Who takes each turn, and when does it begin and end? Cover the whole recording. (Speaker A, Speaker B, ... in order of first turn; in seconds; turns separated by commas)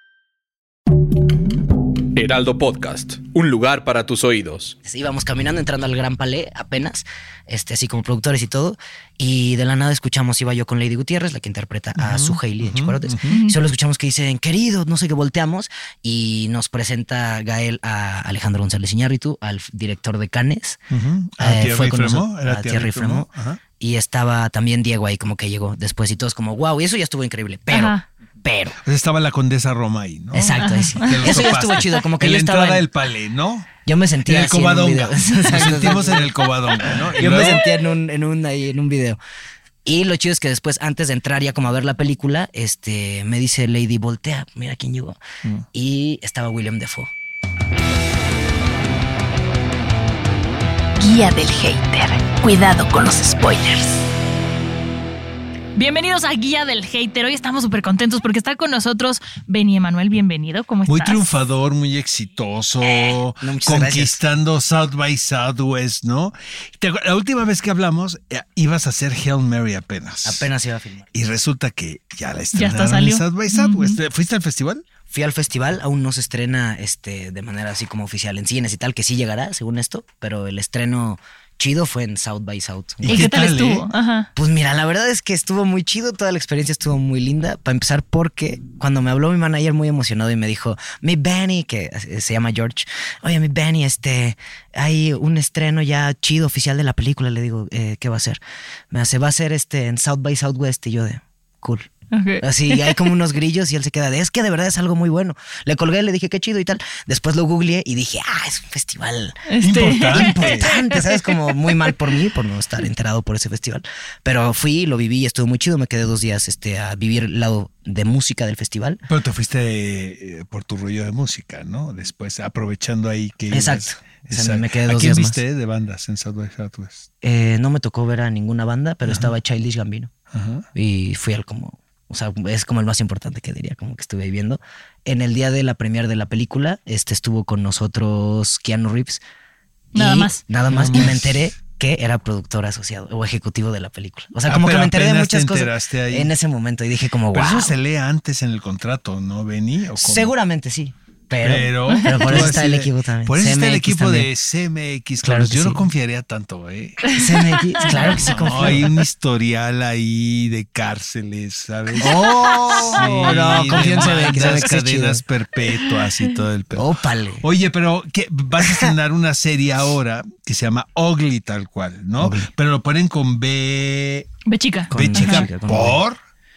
Speaker A: 2.1-4.8, Speaker B: 4.8-20.8, Speaker C: 12.0-13.4, Speaker D: 13.3-13.6, Speaker C: 20.9-23.6, Speaker B: 21.4-28.8, Speaker D: 27.7-28.0, Speaker C: 28.9-33.7, Speaker B: 30.3-32.9, Speaker D: 30.5-31.4, Speaker B: 33.9-36.3, Speaker C: 34.3-37.7, Speaker B: 37.1-39.2, Speaker B: 39.9-45.2, Speaker B: 45.7-47.1, Speaker E: 51.0-54.0, Speaker D: 55.8-61.3, Speaker C: 60.9-70.5, Speaker B: 63.4-64.2, Speaker B: 70.2-71.1, Speaker C: 71.1-74.8, Speaker D: 72.5-74.0, Speaker B: 75.1-83.3, Speaker C: 83.0-83.9, Speaker D: 83.1-84.3, Speaker B: 84.3-101.9, Speaker D: 102.1-103.0, Speaker B: 102.4-119.0, Speaker D: 109.5-111.8, Speaker C: 109.6-110.7, Speaker C: 119.1-127.1, Speaker B: 123.5-125.4, Speaker B: 127.2-130.1, Speaker C: 129.1-129.3, Speaker C: 130.3-130.7, Speaker B: 130.8-139.2, Speaker D: 139.9-140.4, Speaker B: 139.9-147.8, Speaker C: 140.7-141.5, Speaker C: 144.5-146.3, Speaker C: 147.3-150.3, Speaker B: 150.0-154.3, Speaker C: 151.4-157.1, Speaker D: 151.9-152.5, Speaker B: 155.2-155.9, Speaker D: 157.1-158.9, Speaker B: 157.1-159.0, Speaker C: 157.8-166.9, Speaker D: 162.0-164.2, Speaker B: 162.0-165.2, Speaker D: 165.8-166.3, Speaker B: 166.7-167.4, Speaker C: 167.4-174.3, Speaker B: 168.6-168.9, Speaker B: 172.2-172.5, Speaker D: 174.5-175.5, Speaker B: 174.9-176.0, Speaker C: 174.9-176.2